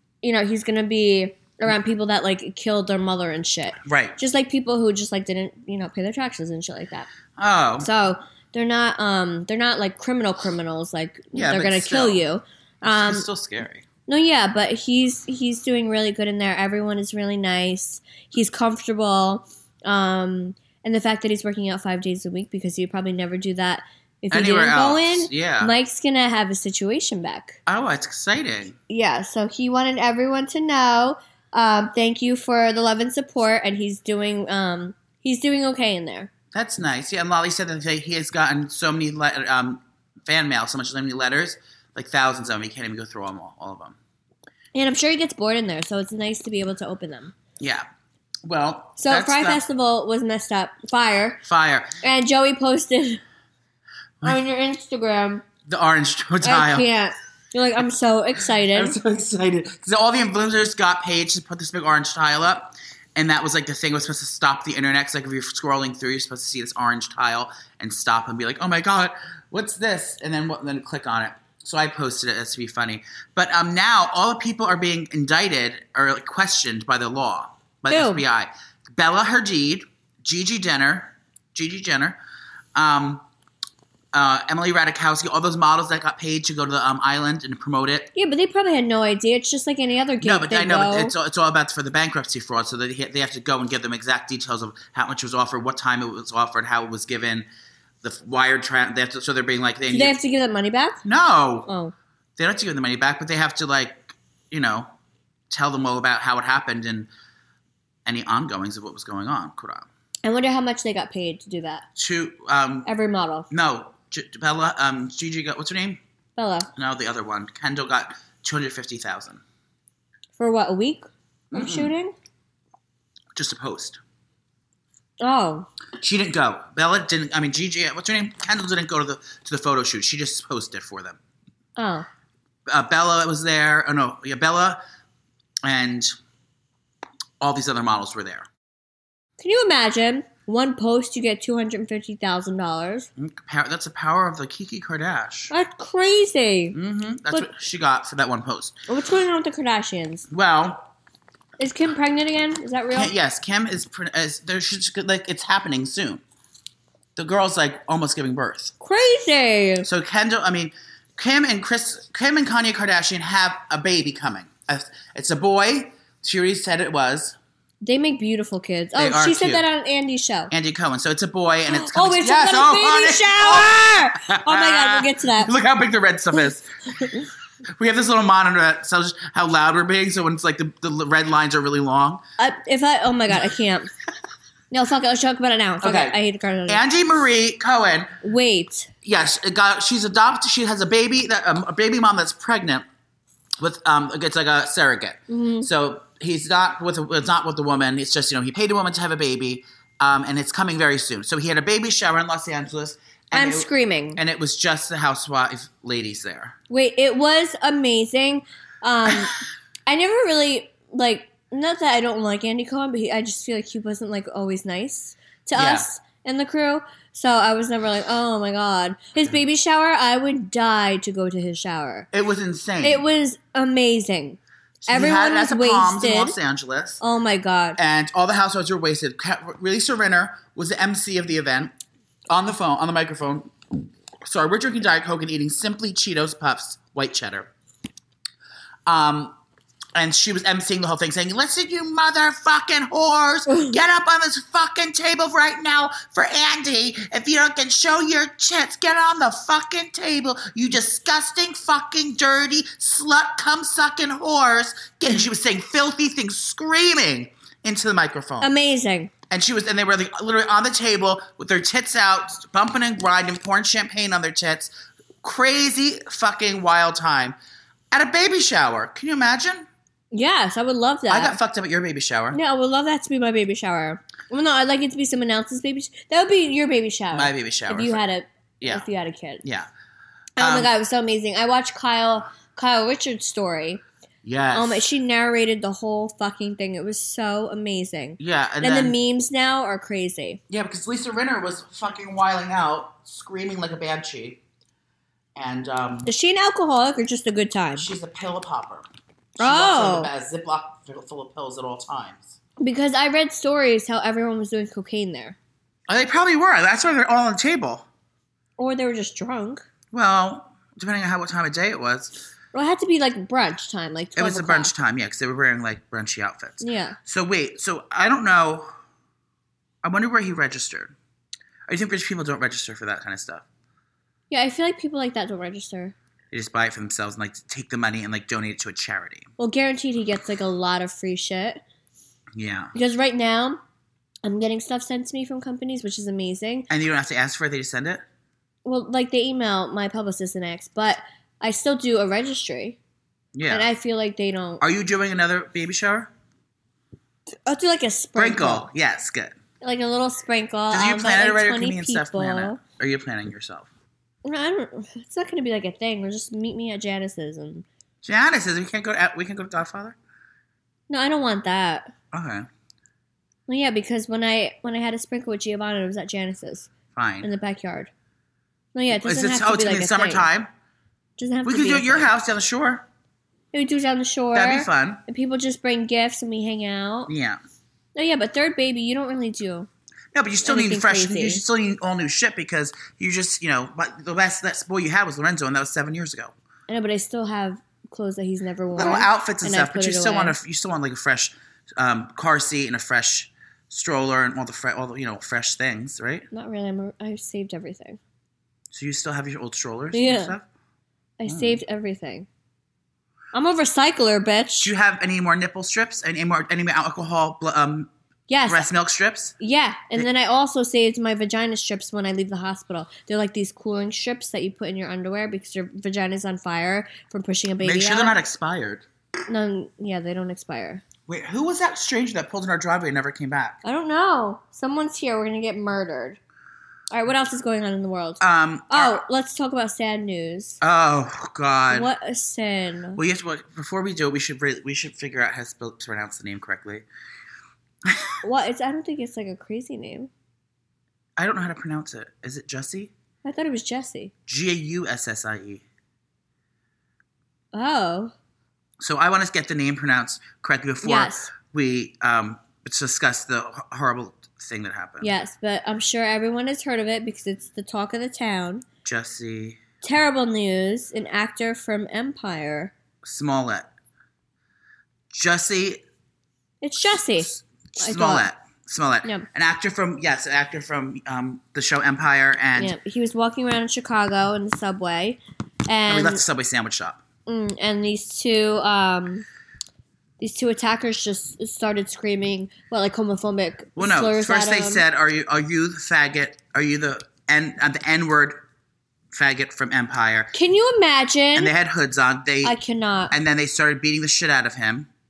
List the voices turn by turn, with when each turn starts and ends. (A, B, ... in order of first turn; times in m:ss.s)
0:00.2-0:07.1 A
0:03.8-0:04.2 B
0:07.4-0:07.9 B
0:07.8-0:13.3 A
0:11.3-0:12.2 B
0:12.8-0:13.8 B
0:14.1-0:27.6 A
0:24.3-0:25.7 B
0:27.7-0:28.8 B
0:28.9-0:36.3 A
0:36.5-0:44.0 B
0:44.8-0:47.3 A
0:47.6-0:47.8 B
0:48.4-0:49.6 B
0:49.0-0:51.4 A
0:51.4-0:52.0 B
0:52.0-0:53.2 A
0:54.2-0:55.4 A
0:55.6-0:56.9 B
0:56.4-0:59.0 A
0:58.7-1:22.2 B
1:17.9-1:18.2 A
1:22.8-1:23.2 B
1:24.1-1:28.1 B
1:28.2-1:31.1 A
1:30.2-1:37.5 B
1:38.0-1:40.2 B
1:39.9-1:41.0 A
1:41.0-1:41.7 B
1:41.7-1:41.9 A
1:42.4-1:44.9 B
1:45.5-1:47.1 B
1:48.1-1:49.9 B
1:50.2-1:51.8 A
1:52.0-1:52.9 B
1:52.9-1:53.5 A
1:53.5-1:56.0 B
1:56.4-1:56.7 A
1:56.8-1:59.4 B
2:00.4-2:02.1 A
2:01.5-2:01.9 B
2:03.3-2:04.0 B
2:05.2-2:05.7 A
2:06.0-2:11.2 B
2:11.8-2:12.1 A
2:12.7-2:14.8 B
2:15.6-2:16.2 B
2:17.4-2:18.5 B
2:19.4-2:23.1 A
2:23.2-2:25.5 B
2:25.5-2:26.8 A
2:26.7-2:28.8 B
2:28.9-2:30.3 A
2:30.3-2:30.9 B
2:31.6-2:33.1 A
2:32.9-2:36.2 B
2:37.2-2:38.7 B
2:38.8-2:39.9 A
2:39.8-2:47.4 B
2:47.8-2:50.5 A
2:49.0-2:49.6 B
2:50.5-2:56.7 B
2:51.7-2:55.5 A
2:57.8-3:02.2 B
3:02.4-3:03.9 A
3:04.7-3:06.8 A
3:05.8-3:08.2 B
3:08.2-3:08.9 A
3:09.0-3:12.8 B
3:13.6-3:26.6 B
3:15.3-3:15.7 A
3:23.3-3:24.2 A
3:26.7-3:29.4 A
3:29.9-3:42.1 A
3:35.6-3:35.9 B
3:42.1-3:43.0 B
3:42.8-3:46.4 A
3:44.8-3:47.0 B
3:47.0-3:47.8 A
3:47.8-3:51.7 B
3:52.3-3:53.5 B
3:54.2-3:57.5 B
3:58.9-3:59.4 B
4:00.0-4:18.5 B
4:03.5-4:03.8 A
4:18.4-4:19.1 A
4:19.3-4:24.7 B
4:25.2-4:27.4 B
4:27.9-4:29.7 B
4:30.1-4:31.4 A
4:31.1-4:32.4 B
4:32.3-4:39.4 A
4:37.1-4:38.0 B
4:38.6-4:38.9 B
4:39.4-4:39.7 B
4:40.4-4:43.8 A
4:40.4-4:40.7 B
4:44.2-4:44.8 B
4:44.5-4:50.4 A
4:48.2-4:49.0 B
4:50.5-4:54.4 B
4:55.4-4:56.1 B
4:56.1-4:57.9 A
4:57.8-4:58.9 B
4:59.4-5:02.4 B
4:59.4-5:00.1 A
5:02.6-5:05.4 A
5:05.9-5:07.9 B
5:08.6-5:09.6 A
5:09.9-5:12.2 B
5:12.5-5:14.7 A
5:14.2-5:18.7 B
5:16.6-5:17.0 A
5:19.8-5:20.9 B
5:21.7-5:23.4 B
5:24.3-5:26.0 A
5:26.3-5:29.3 B
5:29.4-5:31.6 A
5:32.4-5:32.7 B
5:32.8-5:33.6 A
5:34.2-5:36.7 A
5:36.7-5:38.0 B
5:38.6-5:42.8 A
5:43.3-5:43.7 B
5:43.5-5:44.6 A
5:44.6-5:46.1 B
5:47.5-5:48.7 A
5:48.2-5:49.4 B
5:49.6-5:52.6 A
5:50.7-5:53.7 B
5:54.2-5:57.6 A
5:58.0-6:00.0 B
6:00.9-6:01.9 A
6:02.1-6:02.5 B
6:03.5-6:06.7 A
6:07.0-6:07.3 B
6:07.2-6:07.9 A
6:08.7-6:10.3 A
6:08.9-6:10.5 B
6:11.2-6:12.1 A
6:11.4-6:12.8 B
6:13.5-6:17.1 A
6:14.3-6:15.0 B
6:17.1-6:17.4 B
6:18.0-6:19.7 A
6:20.1-6:26.3 B
6:20.4-6:21.4 A
6:26.7-6:30.4 A
6:28.8-6:36.3 B
6:36.3-6:38.0 A
6:38.7-6:40.4 B
6:39.9-6:40.4 A
6:41.2-6:42.3 A
6:41.3-6:41.6 B
6:43.3-6:44.7 A
6:44.6-6:47.9 B
6:48.3-6:48.7 A
6:48.5-6:49.4 B
6:49.4-6:58.2 A
6:57.6-6:58.8 B
6:59.3-7:00.8 A
7:01.1-7:03.6 B
7:03.6-7:06.2 A
7:06.9-7:10.6 A
7:08.2-7:09.0 B
7:10.6-7:11.9 B
7:11.7-7:13.0 A
7:13.0-7:16.9 B
7:17.8-7:18.1 B
7:18.2-7:20.1 A
7:21.2-7:22.9 B
7:23.2-7:24.1 A
7:24.3-7:25.6 B
7:27.5-7:28.1 A
7:28.8-7:35.1 B
7:30.8-7:31.3 A
7:35.0-7:38.6 A
7:38.8-7:39.6 B
7:39.8-7:42.7 A
7:43.0-7:43.7 B
7:45.1-7:45.8 B
7:46.6-7:48.3 A
7:47.2-7:52.8 B
7:52.6-7:56.2 A
7:55.9-7:57.0 B
7:57.3-7:59.2 A
8:00.2-8:04.8 A
8:03.8-8:08.4 B
8:09.1-8:10.3 B
8:10.3-8:11.5 A
8:11.4-8:12.6 B
8:12.4-8:13.1 A
8:13.1-8:14.9 B